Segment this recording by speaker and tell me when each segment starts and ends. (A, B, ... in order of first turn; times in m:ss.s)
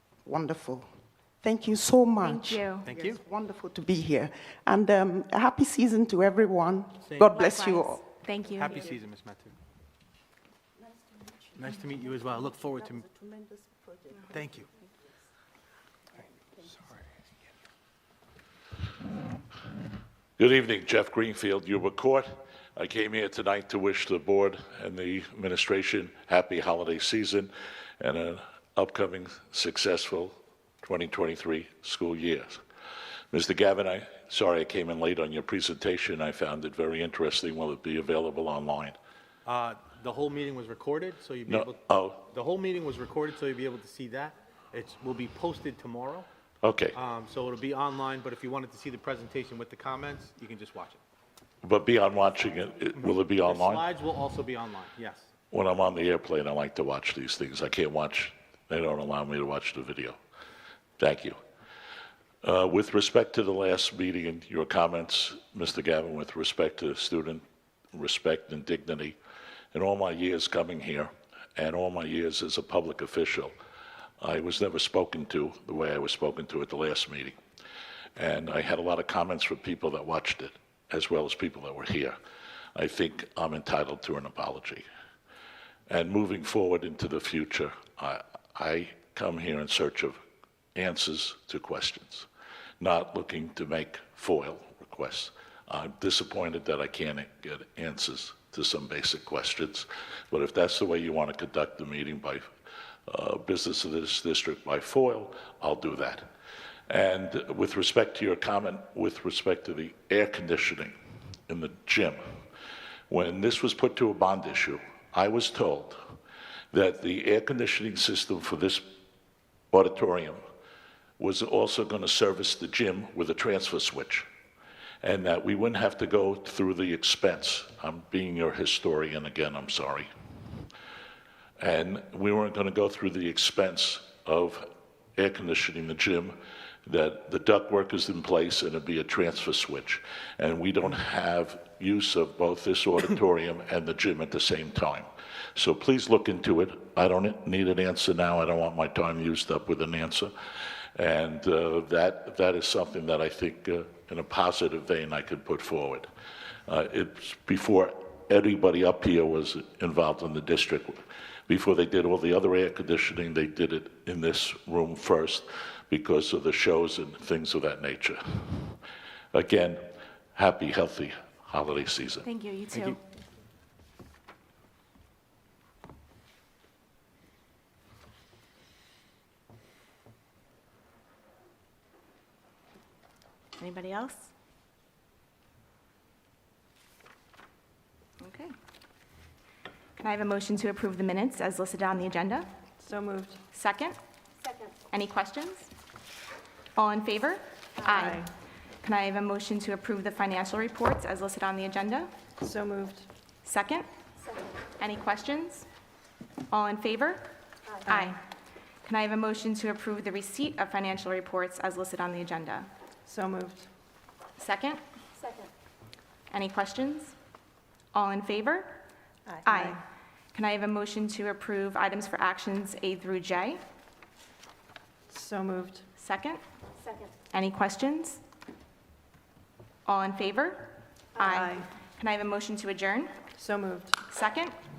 0:00.2-0:00.9 A
0:01.4-0:08.0 A
0:02.2-0:02.9 B
0:02.8-0:03.2 C
0:07.0-0:07.3 C
0:07.3-0:08.9 B
0:08.6-0:09.6 C
0:11.5-0:13.0 C
0:13.1-0:13.6 A
0:14.3-0:14.7 C
0:20.4-0:32.6 D
0:33.3-0:39.0 D
0:39.4-0:46.3 C
0:41.5-0:42.2 D
0:46.6-0:47.0 D
0:46.9-0:51.0 C
0:51.6-0:53.8 D
0:52.9-0:55.3 C
0:55.5-1:00.2 D
1:01.0-1:01.4 D
1:02.4-1:07.4 D
1:07.9-1:09.2 D
1:09.7-1:13.5 D
1:14.2-1:17.4 D
1:18.2-1:22.2 D
1:22.8-1:24.8 D
1:25.9-1:30.2 D
1:30.7-1:32.3 D
1:32.8-1:42.4 D
1:43.1-1:46.3 D
1:46.9-1:50.9 D
1:51.5-1:52.2 D
1:53.1-1:56.0 D
1:56.7-1:58.8 D
1:59.7-2:00.4 D
2:01.2-2:04.2 D
2:05.0-2:10.1 D
2:11.6-2:14.6 D
2:15.2-2:30.3 D
2:31.0-2:36.1 D
2:36.7-2:48.8 D
2:49.3-2:49.8 D
2:50.3-2:52.2 D
2:52.2-2:53.0 B
3:03.6-3:04.3 B
3:08.2-3:08.5 B
3:10.0-3:12.5 B
3:12.8-3:13.4 E
3:13.5-3:14.0 B
3:14.9-3:15.7 B
3:16.8-3:18.2 B
3:17.9-3:18.3 E
3:18.8-3:22.1 B
3:22.4-3:23.1 E
3:23.4-3:23.8 B
3:24.8-3:25.7 B
3:26.5-3:28.2 B
3:28.8-3:32.7 B
3:33.0-3:33.6 E
3:34.4-3:34.8 B
3:36.3-3:37.1 B
3:37.9-3:38.8 B
3:39.3-3:39.8 E
3:39.4-3:39.8 B
3:40.3-3:43.6 B
3:45.1-3:45.8 E
3:46.0-3:46.4 B
3:47.3-3:48.2 B
3:49.8-3:53.2 B
3:51.2-3:51.7 E
3:53.4-3:54.0 E
3:54.0-3:54.5 B